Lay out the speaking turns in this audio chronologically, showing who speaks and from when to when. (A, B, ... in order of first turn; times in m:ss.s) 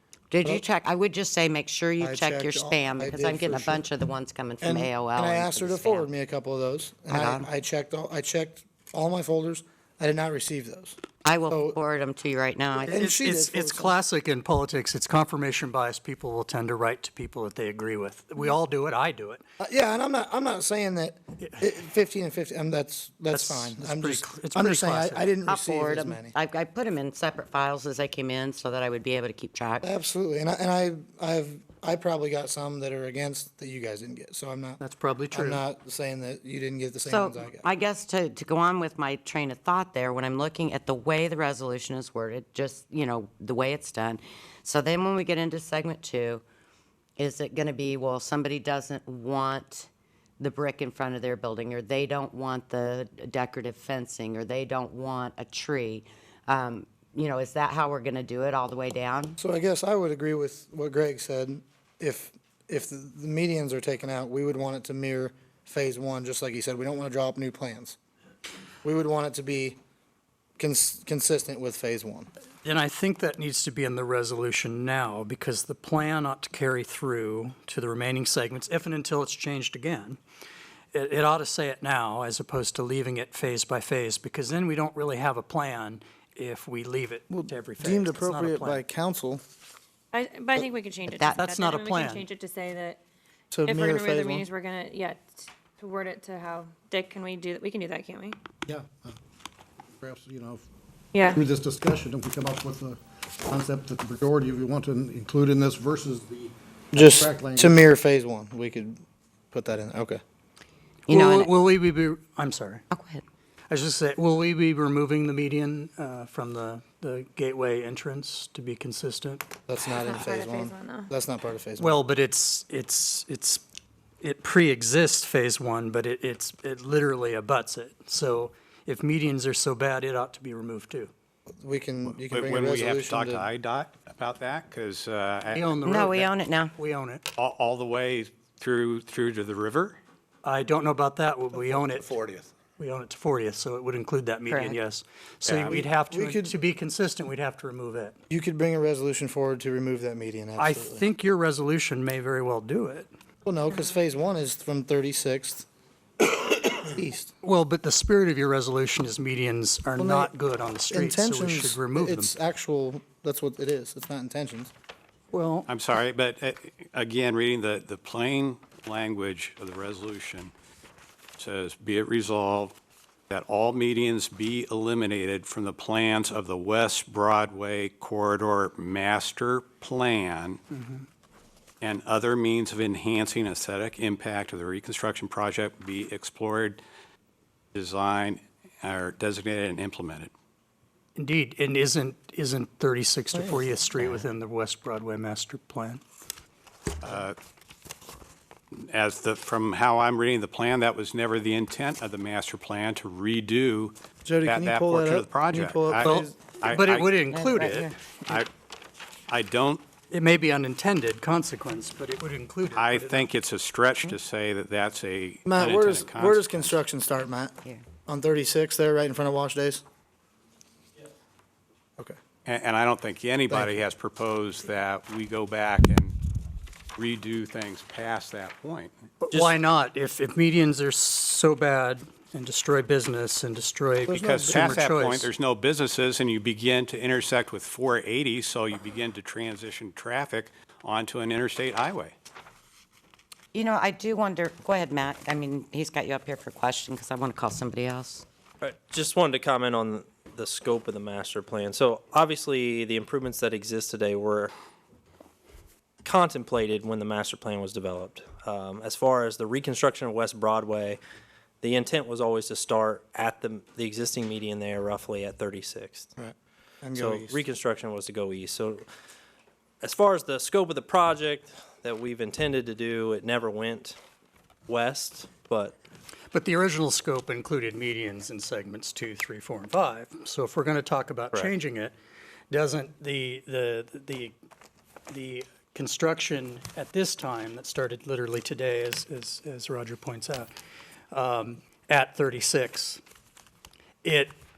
0:00.3-0:06.1 A
0:02.0-0:03.8 B
0:04.6-0:11.0 B
0:07.1-0:07.5 A
0:11.2-0:13.0 A
0:11.5-0:11.8 B
0:12.9-0:13.9 B
0:12.9-0:19.4 C
0:19.6-0:26.3 B
0:23.3-0:25.2 C
0:25.5-0:29.8 A
0:29.8-0:34.8 B
0:34.8-0:35.6 C
0:35.3-0:37.6 B
0:37.0-0:46.4 A
0:47.2-0:59.4 A
0:59.4-1:08.0 B
1:08.8-1:09.8 B
1:10.6-1:12.3 B
1:12.6-1:20.2 C
1:20.9-1:28.8 C
1:27.3-1:29.4 B
1:30.1-1:33.0 D
1:31.3-1:32.3 C
1:33.5-1:34.4 B
1:33.6-1:38.4 D
1:38.7-1:39.1 E
1:40.0-1:40.6 E
1:41.1-1:41.4 D
1:41.3-1:47.8 E
1:47.0-1:50.2 B
1:51.1-1:51.5 A
1:51.1-1:52.8 C
1:52.9-1:53.2 A
1:53.7-1:59.4 C
1:59.7-2:02.0 B
1:59.9-2:01.1 D
2:01.8-2:03.6 C
2:04.2-2:11.1 C
2:11.6-2:13.5 B
2:12.1-2:15.7 F
2:15.5-2:17.2 C
2:15.8-2:16.7 A
2:17.4-2:20.0 F
2:20.4-2:22.1 C
2:22.1-2:22.4 F
2:22.8-2:28.2 C
2:24.5-2:24.8 A
2:25.4-2:25.8 F
2:25.7-2:26.5 B
2:28.3-2:31.1 B
2:30.6-2:33.1 C
2:33.4-2:35.7 B
2:36.8-2:37.3 B
2:37.4-2:42.3 C
2:40.0-2:40.3 B
2:40.9-2:44.7 B
2:45.3-2:45.7 C
2:45.7-2:50.5 F
2:51.4-2:52.8 F
2:53.3-3:00.6 F
3:01.8-3:06.8 F
3:07.7-3:10.3 F
3:11.2-3:16.0 C
3:13.4-3:13.7 B
3:17.0-3:17.4 F
3:18.7-3:27.1 F
3:24.2-3:26.4 B
3:26.0-3:27.9 C
3:27.3-3:27.9 A
3:29.3-3:29.8 F
3:30.1-3:33.3 C
3:32.7-3:36.8 F
3:35.5-3:37.6 B
3:38.1-3:39.8 B
3:42.4-3:46.2 F
3:47.0-3:48.9 F
3:49.2-3:55.3 C
3:54.1-3:54.7 B
3:54.1-4:02.2 F
4:03.5-4:08.2 A
4:08.6-4:14.5 G
4:16.0-4:21.0 G
4:21.6-4:26.1 G
4:26.2-4:27.4 B
4:27.0-4:28.9 G
4:29.8-4:34.0 G
4:34.7-4:35.8 G
4:36.3-4:41.9 C
4:42.5-4:44.3 C
4:45.1-4:50.5 C
4:51.1-4:53.0 C
4:54.0-4:54.3 C